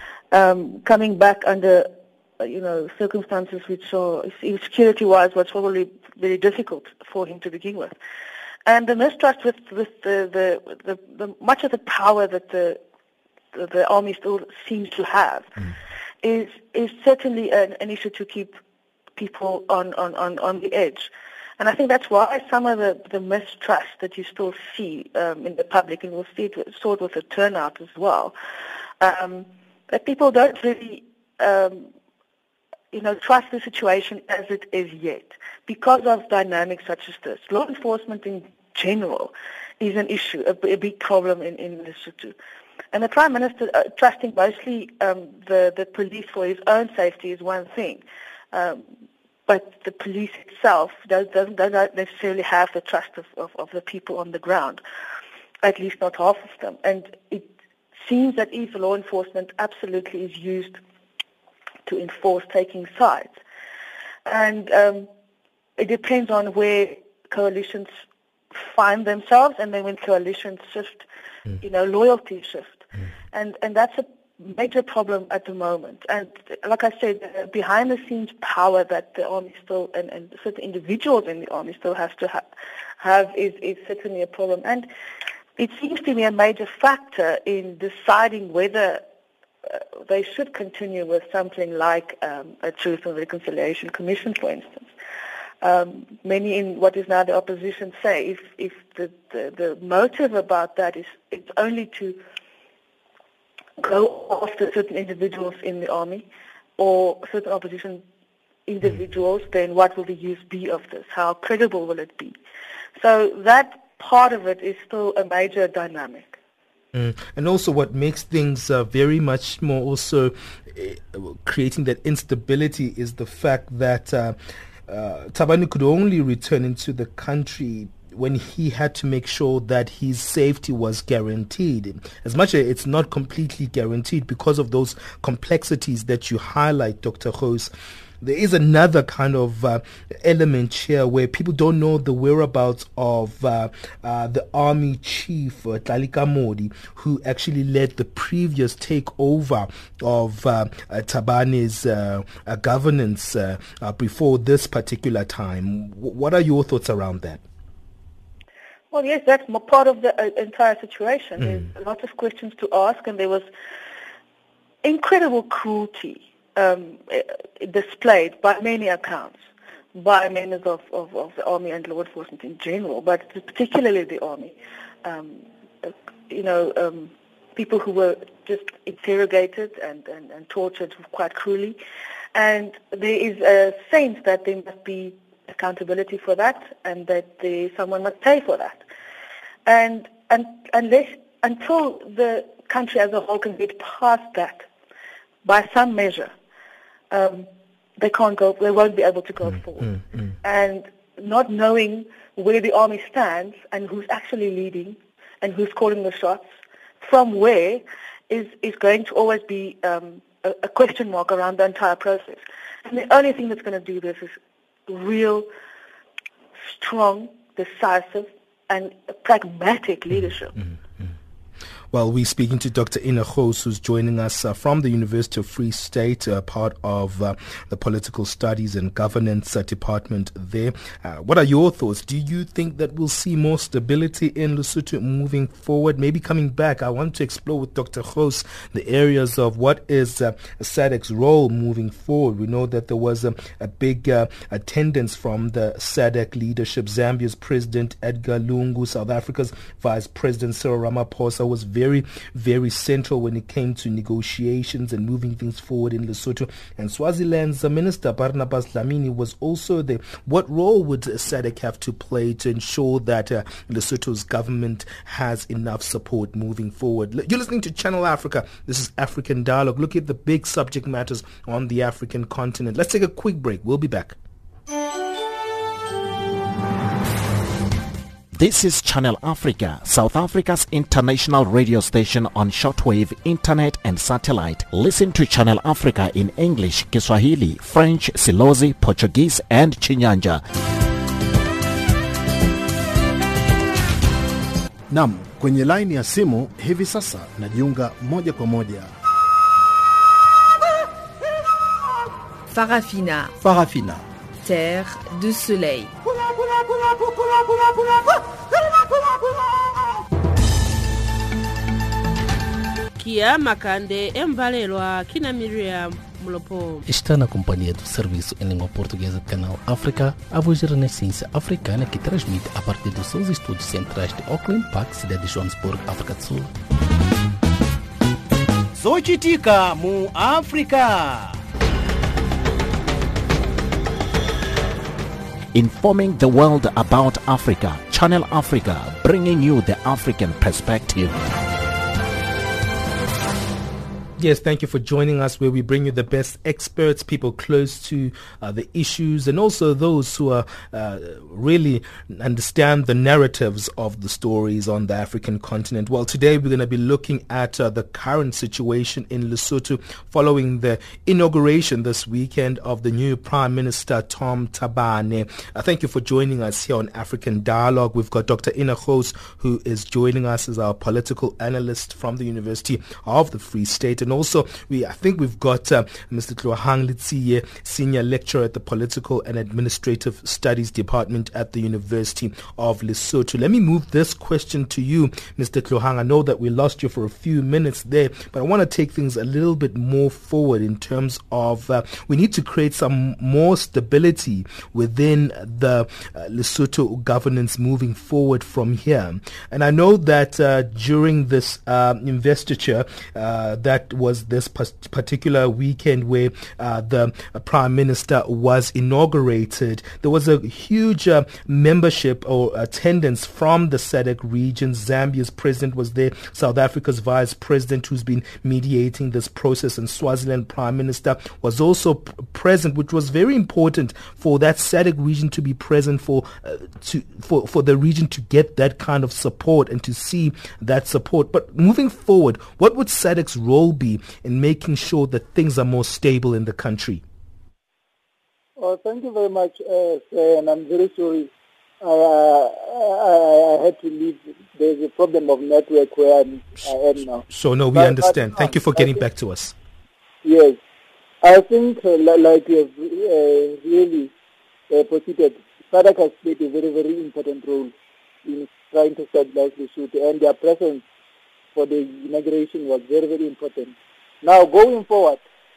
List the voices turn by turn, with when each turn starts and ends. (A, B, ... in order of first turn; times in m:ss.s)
0:00.3-0:08.0 A
0:08.7-0:12.8 A
0:13.5-0:15.6 A
0:16.2-0:18.6 A
0:19.2-0:28.4 A
0:29.0-0:31.9 A
0:32.9-0:42.4 A
0:42.9-0:48.9 A
0:49.5-0:54.8 A
0:55.6-1:00.8 A
1:01.9-1:03.4 A
1:04.3-1:05.1 A
1:05.8-1:07.9 A
1:08.5-1:11.1 A
1:11.6-1:22.5 A
1:23.0-1:24.9 A
1:25.6-1:29.0 A
1:29.7-1:34.9 A
1:35.6-1:42.2 A
1:43.8-1:46.3 A
1:46.8-1:48.0 A
1:48.7-1:52.4 A
1:53.0-1:56.4 A
1:56.9-2:04.4 B
2:04.9-2:37.4 B
2:38.9-2:43.5 A
2:44.8-3:01.8 A
3:02.4-3:08.8 A
3:09.7-3:14.7 A
3:15.4-3:16.3 A
3:17.1-3:35.5 A
3:36.6-3:40.6 A
3:41.9-4:34.2 B
4:38.3-4:50.4 C
4:54.9-4:58.9 D
5:02.5-5:03.3 E
5:03.4-5:04.0 D
5:04.4-5:05.9 E
5:13.0-5:16.8 F
5:16.9-5:26.5 G
5:28.8-5:31.4 H
5:35.5-5:41.2 C
5:44.2-7:17.0 B
7:18.6-7:21.3 I
7:21.8-7:29.0 I
7:27.3-7:29.6 B
7:30.2-7:30.6 I
7:31.2-7:34.1 I
7:34.7-7:37.7 I
7:38.2-7:40.8 I
7:41.6-7:45.2 I